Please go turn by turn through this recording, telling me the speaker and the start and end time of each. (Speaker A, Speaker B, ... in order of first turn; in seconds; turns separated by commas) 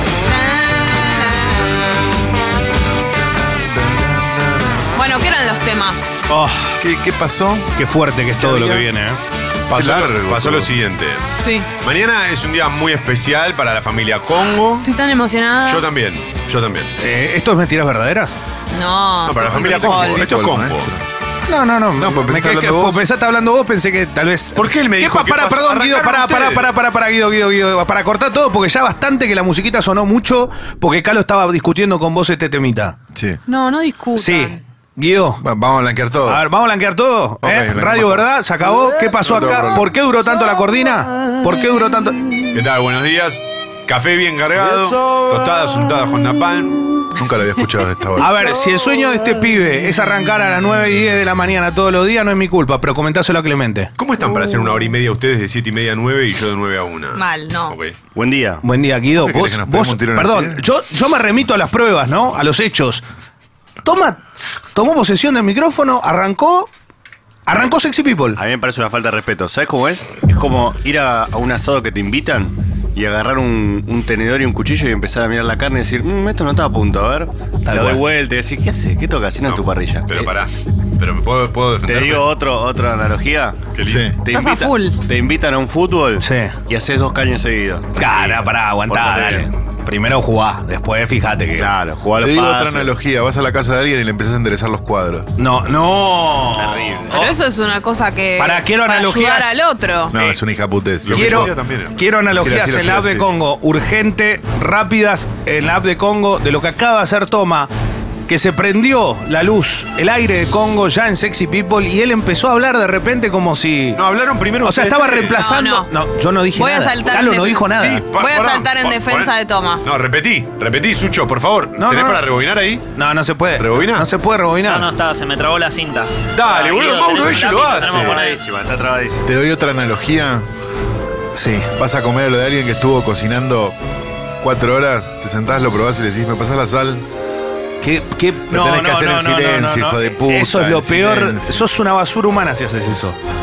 Speaker A: 0.2-2.1, Speaker B: 0.9-1.5, Speaker B: 3.0-4.9, Speaker A: 5.0-6.2, Speaker C: 6.3-6.8, Speaker B: 6.8-7.7, Speaker C: 7.8-9.2, Speaker B: 8.4-8.9, Speaker D: 9.7-11.3, Speaker B: 9.7-10.8, Speaker A: 11.4-11.7, Speaker D: 11.8-14.9, Speaker A: 14.8-15.9, Speaker D: 15.7-16.9, Speaker C: 17.0-18.4, Speaker A: 18.7-20.2, Speaker D: 19.2-20.9, Speaker B: 19.5-21.0, Speaker C: 21.5-33.0, Speaker B: 21.9-23.0, Speaker D: 24.6-26.7, Speaker B: 33.1-33.4, Speaker A: 33.5-34.6, Speaker C: 34.2-35.4, Speaker B: 35.4-36.4, Speaker C: 36.2-42.2, Speaker B: 37.4-39.9, Speaker D: 42.5-46.8, Speaker B: 47.1-48.4, Speaker C: 48.2-53.9, Speaker D: 54.0-58.0, Speaker A: 57.1-57.8, Speaker E: 58.1-58.6, Speaker C: 58.6-63.0, Speaker B: 59.1-60.6, Speaker C: 63.8-64.2, Speaker C: 64.7-66.7, Speaker C: 67.5-68.4, Speaker E: 68.3-80.2, Speaker C: 77.7-78.0, Speaker D: 79.5-82.3, Speaker E: 81.8-83.7, Speaker D: 83.7-84.2, Speaker B: 83.8-84.2, Speaker E: 84.2-88.3, Speaker A: 84.3-85.0, Speaker C: 86.2-86.5, Speaker C: 88.0-91.7, Speaker E: 88.9-89.5, Speaker E: 91.5-92.9, Speaker B: 92.2-95.3, Speaker C: 95.4-97.3, Speaker E: 96.6-97.1, Speaker A: 97.1-100.2, Speaker C: 98.4-99.5, Speaker B: 100.1-101.5, Speaker D: 101.0-102.0, Speaker C: 101.1-107.7, Speaker B: 102.3-103.3, Speaker C: 108.3-114.0, Speaker D: 113.9-115.5, Speaker C: 114.6-118.1, Speaker A: 115.3-115.9, Speaker A: 116.5-119.8, Speaker D: 117.7-122.8, Speaker C: 121.8-122.3, Speaker C: 122.9-124.9, Speaker D: 123.6-124.1, Speaker F: 124.6-128.5, Speaker D: 126.3-128.2, Speaker E: 127.8-129.2, Speaker B: 129.2-130.5, Speaker C: 131.3-131.7, Speaker B: 131.8-133.8, Speaker B: 134.4-137.0, Speaker C: 137.8-143.2, Speaker B: 138.5-141.7